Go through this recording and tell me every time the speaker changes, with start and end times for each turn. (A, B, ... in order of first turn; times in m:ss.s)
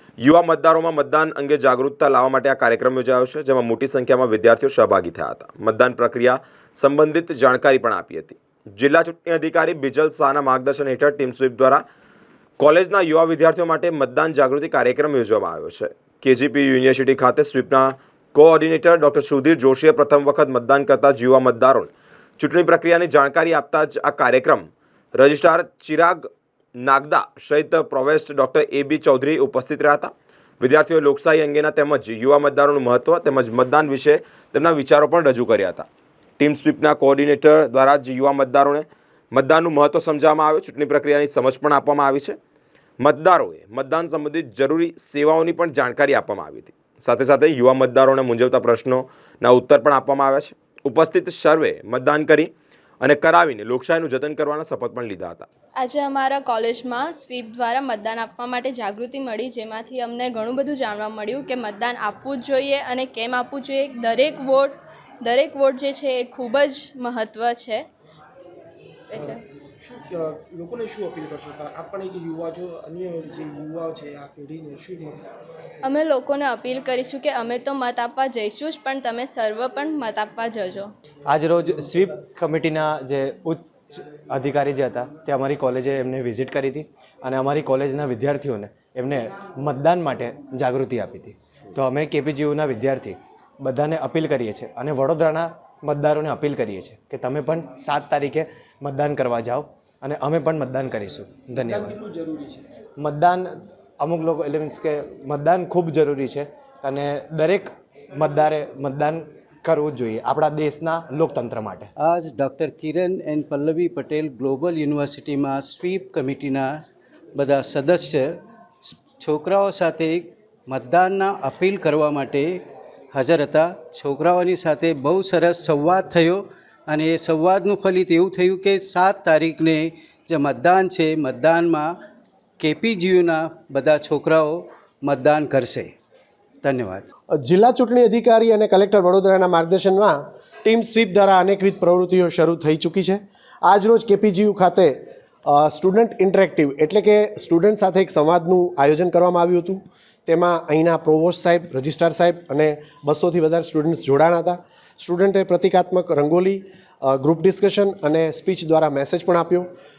0:00.2-0:11.8 A
0:12.6-0:26.3 A
0:26.8-0:35.9 A
0:36.4-0:42.4 A
0:43.0-0:52.5 A
0:53.0-0:55.5 A
0:55.8-1:07.8 B
1:09.1-1:09.4 B
1:09.8-1:15.2 C
1:15.8-1:20.9 B
1:21.3-1:42.0 D
1:41.5-1:42.7 C
1:43.0-1:51.9 D
1:52.0-1:56.7 E
1:57.4-2:02.6 E
2:03.1-2:11.9 E
2:12.6-2:15.9 E
2:16.6-2:17.0 E
2:17.4-2:25.0 F
2:25.5-2:39.7 F